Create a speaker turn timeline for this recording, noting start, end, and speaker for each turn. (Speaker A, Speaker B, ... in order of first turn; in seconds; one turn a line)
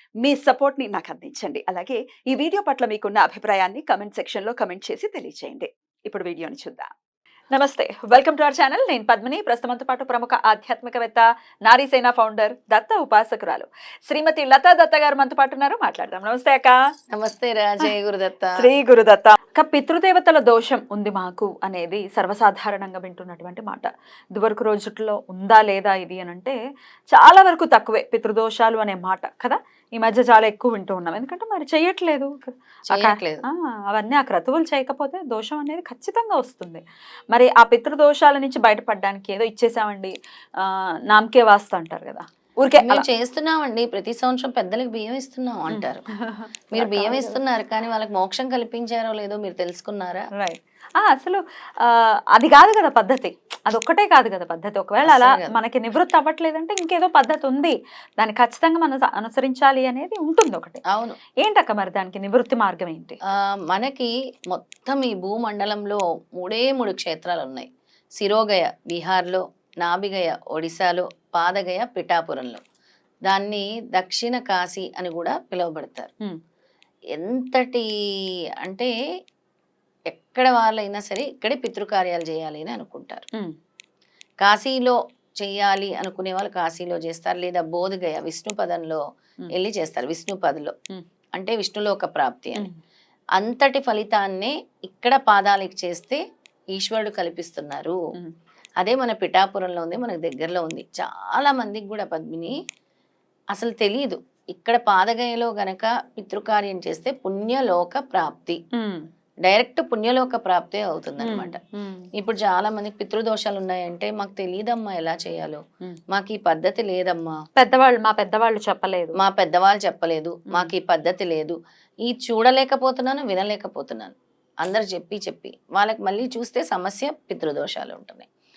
Speaker A: 0.2-6.9
Speaker A: 7.5-16.8
Speaker B: 17.1-18.6
Speaker A: 18.6-26.6
Speaker A: 27.1-43.0
Speaker B: 32.9-33.4
Speaker B: 42.8-46.0
Speaker A: 45.7-47.4
Speaker B: 46.7-50.3
Speaker A: 50.4-60.8
Speaker B: 55.0-55.5
Speaker B: 60.9-61.2
Speaker A: 61.4-63.2
Speaker B: 63.4-67.7
Speaker B: 68.2-72.6
Speaker B: 73.3-76.1
Speaker B: 77.2-77.9
Speaker B: 78.6-78.9
Speaker B: 80.1-83.2
Speaker B: 84.4-89.0
Speaker B: 89.5-90.7
Speaker B: 91.3-92.7
Speaker B: 93.4-96.2
Speaker B: 96.7-98.0
Speaker B: 98.8-102.6
Speaker B: 103.5-108.6
Speaker A: 108.7-109.0
Speaker B: 109.4-111.6
Speaker A: 111.2-112.1
Speaker B: 112.1-117.3
Speaker A: 117.6-119.2
Speaker B: 119.2-128.3